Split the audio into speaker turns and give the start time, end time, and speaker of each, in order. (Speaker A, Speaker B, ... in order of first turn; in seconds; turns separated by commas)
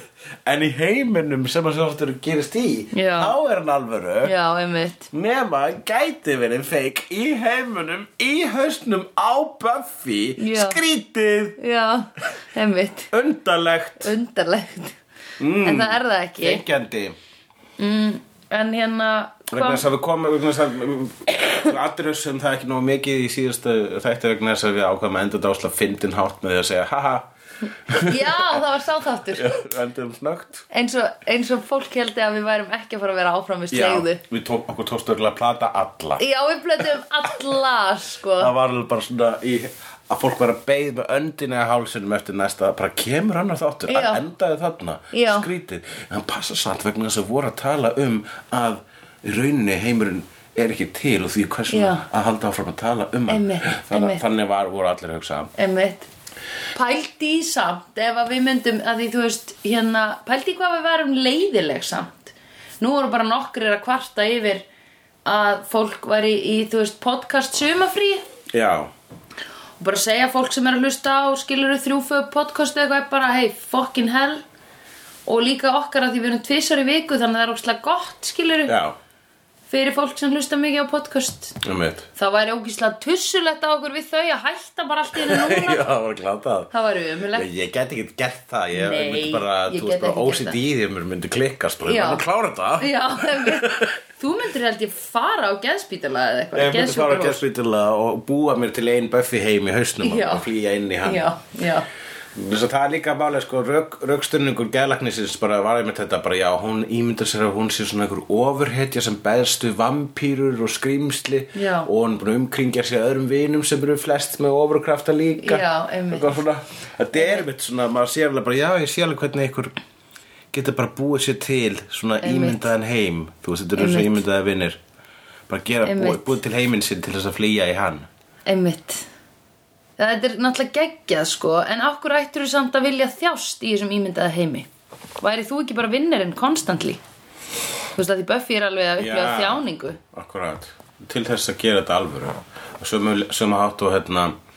Speaker A: 0.4-4.3, Speaker B: 2.9-3.3, Speaker B: 4.2-5.1, Speaker A: 5.1-11.6, Speaker B: 10.4-10.8, Speaker B: 11.6-13.1, Speaker A: 13.1-14.1, Speaker B: 14.0-15.0, Speaker A: 15.4-17.2, Speaker B: 15.6-16.6, Speaker B: 17.8-19.9, Speaker A: 19.5-27.3, Speaker A: 27.9-28.6, Speaker B: 27.9-29.5, Speaker A: 29.3-30.6, Speaker B: 30.7-34.2, Speaker A: 33.7-36.2, Speaker B: 36.2-38.5, Speaker A: 38.4-55.5, Speaker B: 43.9-44.2, Speaker B: 45.1-45.5, Speaker B: 51.7-52.0, Speaker B: 53.3-54.2, Speaker B: 55.5-56.1, Speaker B: 56.7-64.6, Speaker B: 65.2-68.2, Speaker A: 68.5-68.9, Speaker B: 69.8-74.4, Speaker B: 75.2-78.8, Speaker A: 78.7-79.0, Speaker B: 79.7-81.6, Speaker A: 81.6-82.1, Speaker B: 82.2-85.9, Speaker A: 85.1-86.7, Speaker B: 86.7-87.5, Speaker A: 87.3-94.0, Speaker B: 88.7-90.6, Speaker B: 91.8-92.2, Speaker B: 92.8-97.4, Speaker A: 96.5-101.3, Speaker B: 100.0-100.5, Speaker B: 101.0-101.9, Speaker A: 102.3-119.8, Speaker B: 111.5-111.9, Speaker B: 115.4-116.4, Speaker B: 117.1-117.4, Speaker A: 120.5-124.8, Speaker B: 122.2-122.7, Speaker B: 123.8-124.2, Speaker A: 125.5-128.1, Speaker B: 125.8-126.4, Speaker B: 128.4-129.1, Speaker B: 130.0-134.7, Speaker B: 135.2-137.0, Speaker B: 137.9-140.0, Speaker A: 139.0-144.3